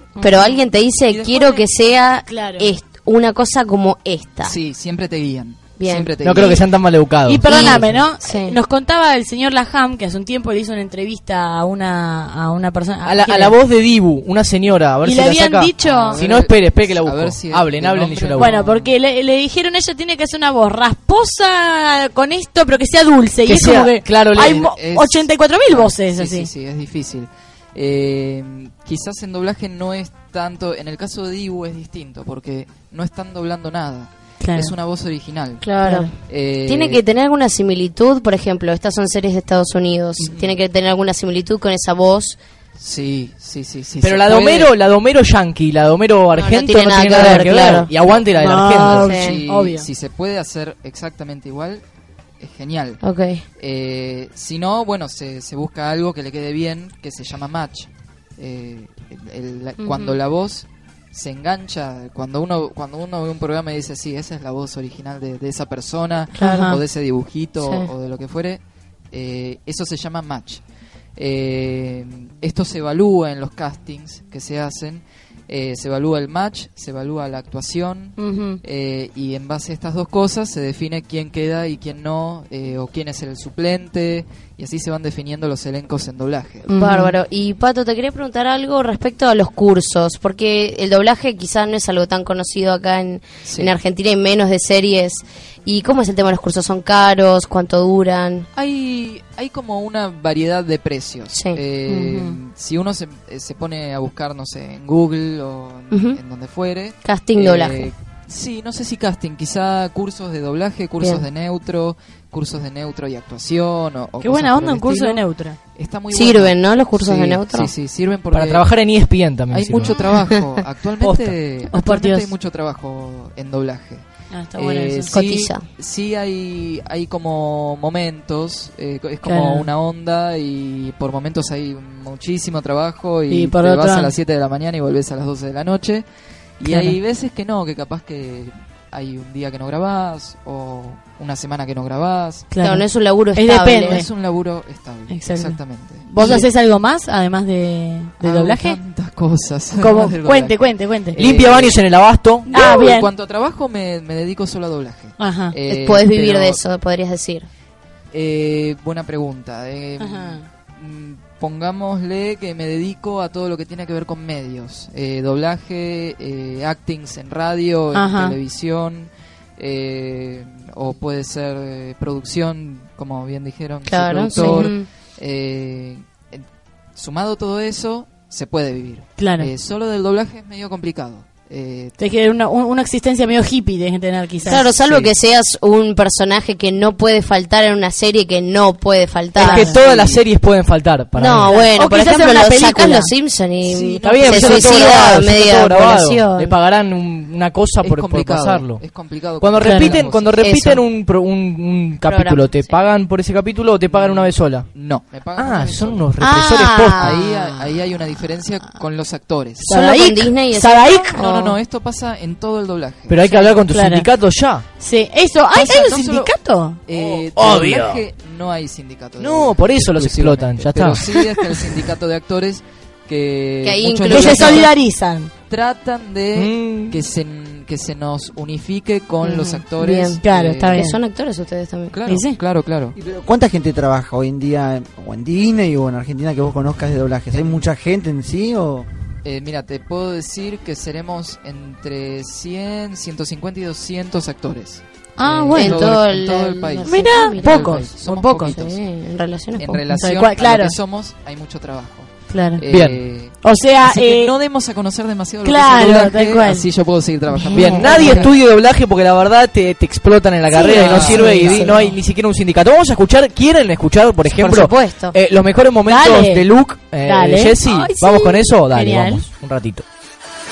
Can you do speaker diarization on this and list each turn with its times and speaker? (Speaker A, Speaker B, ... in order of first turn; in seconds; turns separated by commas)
Speaker A: 0.1-0.6, Speaker B: 0.2-4.5, Speaker C: 1.0-1.6, Speaker A: 2.3-2.7, Speaker C: 4.4-6.6, Speaker B: 5.8-6.6, Speaker D: 6.2-8.0, Speaker A: 7.2-13.5, Speaker B: 7.5-8.6, Speaker D: 13.0-18.6, Speaker A: 15.0-16.2, Speaker C: 15.8-18.9, Speaker A: 18.4-26.5, Speaker D: 23.4-24.7, Speaker C: 24.4-37.0, Speaker A: 34.4-34.7, Speaker B: 35.6-42.4, Speaker A: 35.8-36.1, Speaker C: 40.2-40.6, Speaker C: 42.8-44.7, Speaker D: 44.0-49.1, Speaker B: 46.3-47.9, Speaker C: 48.0-51.8, Speaker A: 48.3-49.9, Speaker B: 49.0-49.4, Speaker C: 52.4-53.0, Speaker B: 53.0-53.4, Speaker C: 53.6-68.6, Speaker A: 59.8-60.2, Speaker B: 66.4-66.7, Speaker A: 66.4-66.8, Speaker B: 67.6-67.9, Speaker C: 69.1-70.6, Speaker C: 71.2-86.7, Speaker A: 78.2-78.6, Speaker A: 86.7-87.1, Speaker B: 86.7-98.5, Speaker C: 93.4-93.7, Speaker C: 98.5-115.2, Speaker B: 101.3-101.6, Speaker A: 101.9-102.4, Speaker B: 105.9-106.2, Speaker B: 107.0-107.9, Speaker A: 114.2-115.5, Speaker C: 115.8-118.7, Speaker B: 116.1-117.7, Speaker D: 118.3-119.9, Speaker C: 119.5-136.0, Speaker D: 121.0-121.3, Speaker A: 121.7-122.3, Speaker A: 124.3-125.2, Speaker B: 125.1-125.6, Speaker A: 129.2-129.7, Speaker A: 133.3-134.1, Speaker C: 136.6-142.5, Speaker A: 136.7-136.9, Speaker A: 142.5-144.1, Speaker B: 142.6-144.0, Speaker C: 143.7-146.1, Speaker A: 145.1-148.8, Speaker B: 146.2-146.4, Speaker C: 148.2-151.8, Speaker A: 149.8-151.2, Speaker D: 151.2-152.5, Speaker C: 152.5-156.6, Speaker A: 152.5-153.1, Speaker A: 155.2-155.5, Speaker B: 155.7-157.5, Speaker C: 158.1-176.4, Speaker A: 160.0-160.4, Speaker A: 167.9-168.3, Speaker B: 173.8-174.9, Speaker A: 174.3-174.8, Speaker C: 176.9-181.9, Speaker A: 179.2-179.5, Speaker A: 182.0-184.7, Speaker B: 184.4-189.7, Speaker C: 184.5-185.1, Speaker D: 189.4-191.6, Speaker A: 189.4-189.7, Speaker C: 189.7-190.2, Speaker B: 191.2-196.5, Speaker A: 191.5-193.1, Speaker C: 193.6-195.3, Speaker D: 194.0-198.8, Speaker C: 197.8-200.4, Speaker D: 199.4-204.7, Speaker A: 199.6-200.0, Speaker B: 200.4-200.8, Speaker B: 202.0-202.8, Speaker C: 203.9-206.1, Speaker D: 205.3-207.2, Speaker A: 206.2-207.2, Speaker C: 207.0-209.7, Speaker A: 209.6-211.2, Speaker B: 209.6-211.6, Speaker C: 211.1-213.4, Speaker D: 213.1-214.6, Speaker A: 213.5-214.1, Speaker A: 214.8-216.8, Speaker C: 215.5-216.3, Speaker C: 216.8-224.7, Speaker D: 216.9-218.0, Speaker D: 219.2-221.1, Speaker B: 223.6-224.7, Speaker A: 224.1-225.3, Speaker C: 225.5-230.9, Speaker D: 226.3-227.0, Speaker B: 229.2-231.9, Speaker A: 230.2-231.0, Speaker C: 231.9-233.0, Speaker A: 232.1-232.4, Speaker E: 233.0-238.9, Speaker C: 237.3-237.6, Speaker C: 239.2-248.8, Speaker A: 245.2-245.9, Speaker B: 245.5-249.8, Speaker A: 246.8-248.5, Speaker C: 249.6-258.3, Speaker A: 249.9-250.7, Speaker A: 252.3-252.6, Speaker D: 252.7-253.0, Speaker A: 253.4-254.3, Speaker A: 255.4-256.6, Speaker B: 257.4-258.1, Speaker D: 257.5-269.8, Speaker A: 257.6-258.3, Speaker B: 260.5-261.9, Speaker A: 260.5-261.7, Speaker C: 260.7-261.4, Speaker B: 264.3-265.1, Speaker A: 265.9-266.4, Speaker A: 267.0-269.2